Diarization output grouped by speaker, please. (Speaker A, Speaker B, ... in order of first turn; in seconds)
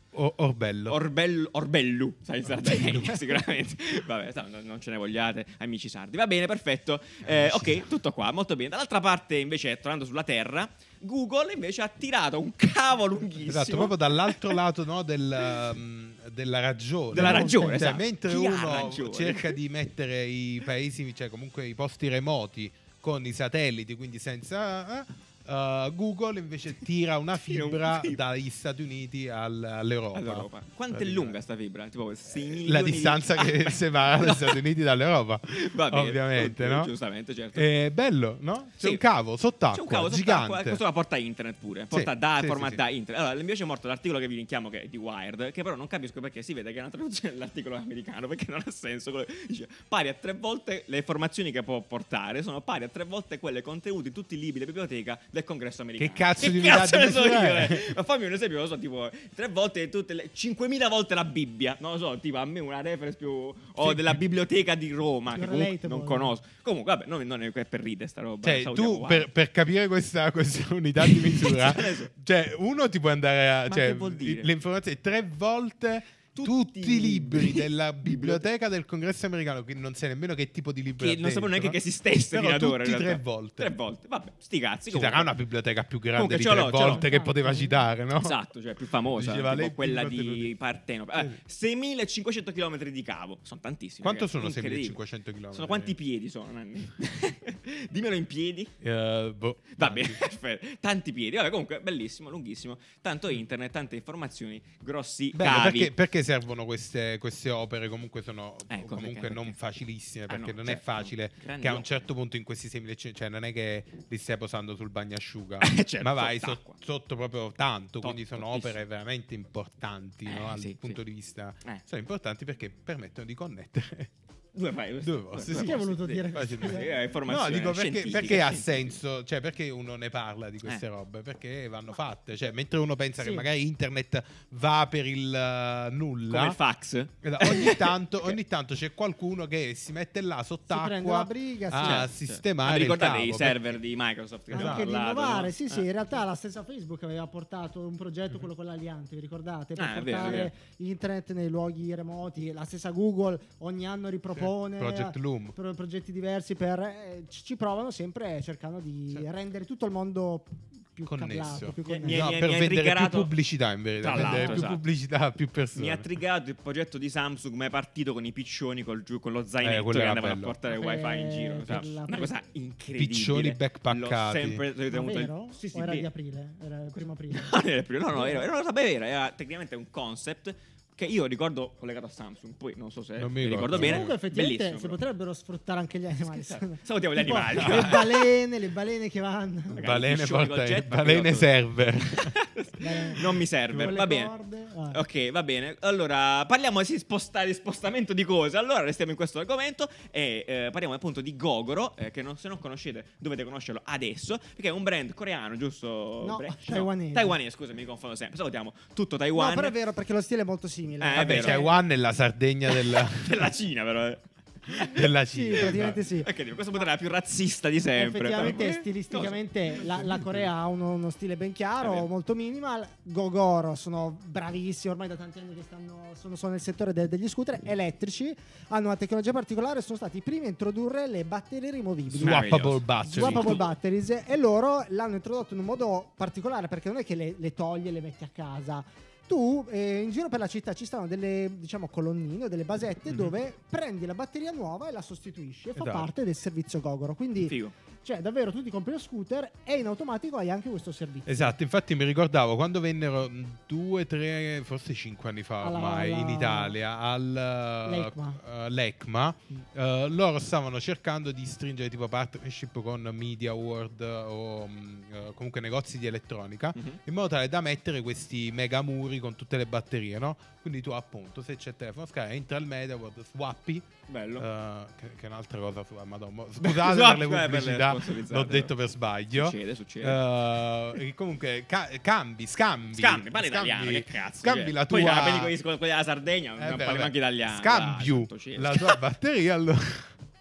Speaker A: 0.1-1.0, 2.6-3.2, 7.2-7.8, 13.5-31.4, 32.3-36.9, 37.5-40.8, 41.9-42.8, 56.0-57.9, 63.8-64.2, 68.4-81.8, 82.3-83.7, 84.9-88.4, 89.2-90.5, 94.0-95.9, 98.8-100.2, 105.3-124.1, 125.0-136.6, 137.2-143.8, 144.5-144.9, 154.3-155.6, 161.1-166.1, 169.6-170.6, 172.9-174.6, 183.2-184.2, 187.6-187.9, 189.7-192.4, 211.2-213.5, 214.9-216.0, 232.1-233.6, 245.8-246.1, 251.2-285.5, 286.6-290.2
Speaker B: 0.9-14.6, 17.1-19.6, 27.4-28.2, 30.1-34.6, 35.6-37.7, 39.7-69.3, 71.0-72.1, 73.7-74.5, 76.3-78.4, 81.0-85.3, 86.2-87.1, 88.2-95.0, 95.5-98.7, 99.7-105.9, 108.7-109.5, 110.3-112.0, 115.6-116.8, 118.0-118.8, 120.3-121.0, 124.5-128.9, 136.3-138.4, 141.8-145.8, 149.8-150.5, 161.8-163.3, 164.0-164.8, 165.7-176.1, 177.3-185.0, 186.2-188.3, 189.8-191.5, 192.2-194.3, 194.9-209.8, 211.0-211.6, 212.7-219.3, 221.8-222.1, 232.2-233.7, 247.4-247.7, 274.1-274.5, 276.6-278.7, 279.3-280.2, 282.9-289.0
Speaker C: 17.1-17.9, 65.3-66.3, 86.8-87.8, 125.5-126.9, 133.2-133.4, 140.7-142.1, 144.5-162.3, 164.1-164.7, 170.7-172.3, 174.9-177.5, 178.1-178.4, 183.7-189.8, 192.8-193.2, 193.7-195.0, 206.2-207.4, 209.3-211.8, 215.3-216.3, 217.9-232.5, 233.0-251.6, 255.6-256.8, 257.9-258.4